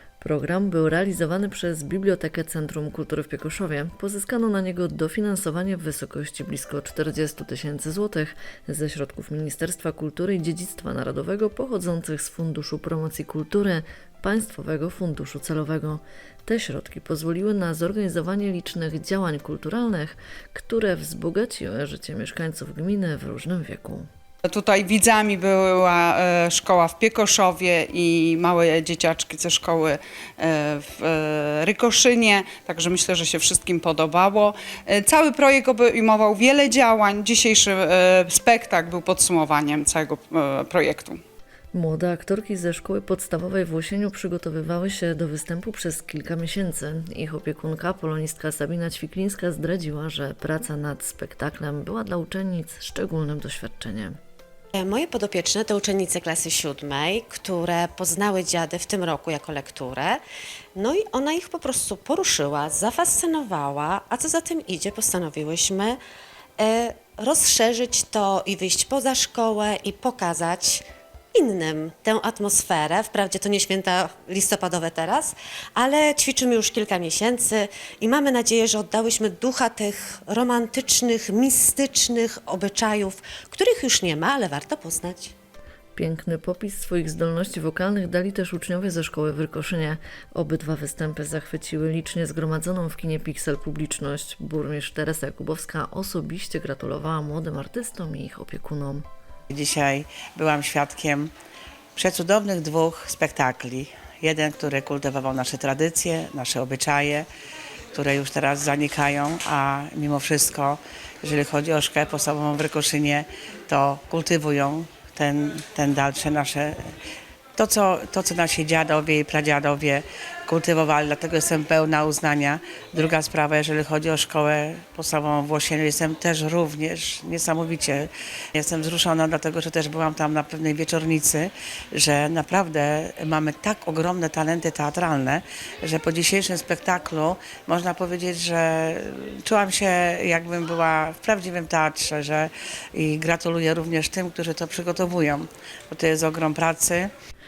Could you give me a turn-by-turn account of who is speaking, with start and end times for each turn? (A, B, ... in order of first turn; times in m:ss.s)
0:00.2-0:24.1 A
0:24.4-0:41.2 B
0:41.7-0:54.2 A
0:54.7-1:00.2 C
1:00.7-1:06.0 C
1:06.6-1:25.3 C
1:25.9-1:39.1 A
1:39.5-1:41.3 D
1:42.0-1:47.3 D
1:47.9-1:56.8 D
1:57.6-2:27.1 D